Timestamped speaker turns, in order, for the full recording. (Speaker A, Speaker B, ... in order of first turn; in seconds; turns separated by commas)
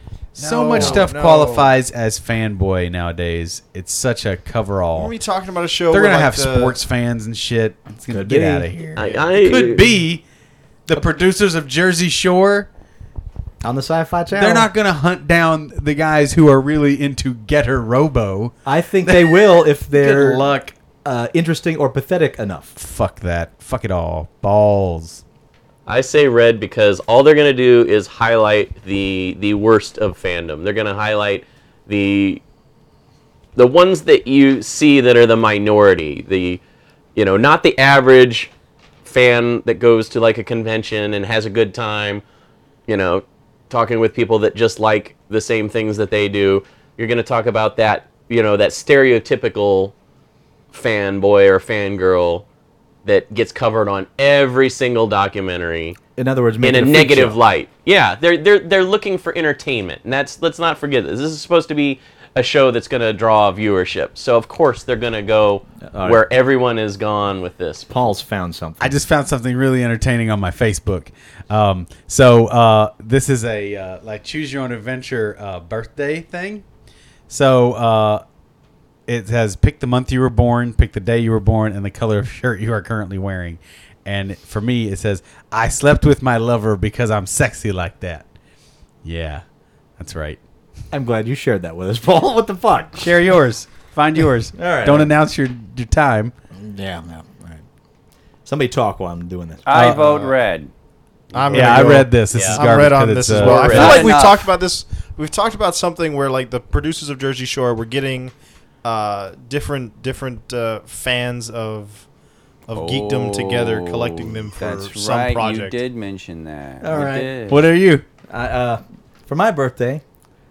Speaker A: 0.3-1.7, Speaker B: 0.3-5.1, Speaker C: 0.8-1.0, Speaker A: 4.9-6.8, Speaker B: 5.9-10.2, Speaker C: 8.1-8.7, Speaker D: 8.9-9.9, Speaker B: 10.9-12.7, Speaker C: 13.6-14.7, Speaker B: 14.3-20.7, Speaker C: 18.6-20.5, Speaker C: 21.0-22.7, Speaker B: 22.8-25.2, Speaker D: 25.9-32.4, Speaker D: 33.5-36.6, Speaker D: 37.1-38.5, Speaker D: 39.0-42.2, Speaker D: 42.9-49.9, Speaker D: 50.7-52.4, Speaker D: 53.0-56.0, Speaker C: 56.1-57.4, Speaker D: 56.6-67.9, Speaker C: 65.9-66.2, Speaker C: 67.9-69.0, Speaker B: 68.8-76.6, Speaker B: 77.3-78.2, Speaker B: 79.1-88.2, Speaker B: 89.0-89.4, Speaker B: 90.0-90.4, Speaker C: 90.9-93.2, Speaker B: 93.0-96.3, Speaker C: 94.5-95.1, Speaker C: 96.5-97.6, Speaker C: 98.4-99.9, Speaker E: 99.6-100.7, Speaker B: 99.7-100.1, Speaker D: 101.3-102.7, Speaker A: 101.3-112.1, Speaker B: 101.5-104.3, Speaker D: 103.3-104.1, Speaker E: 103.5-104.5, Speaker A: 112.7-115.8, Speaker E: 112.7-117.7, Speaker C: 116.8-117.3, Speaker B: 116.9-118.0, Speaker C: 118.3-120.0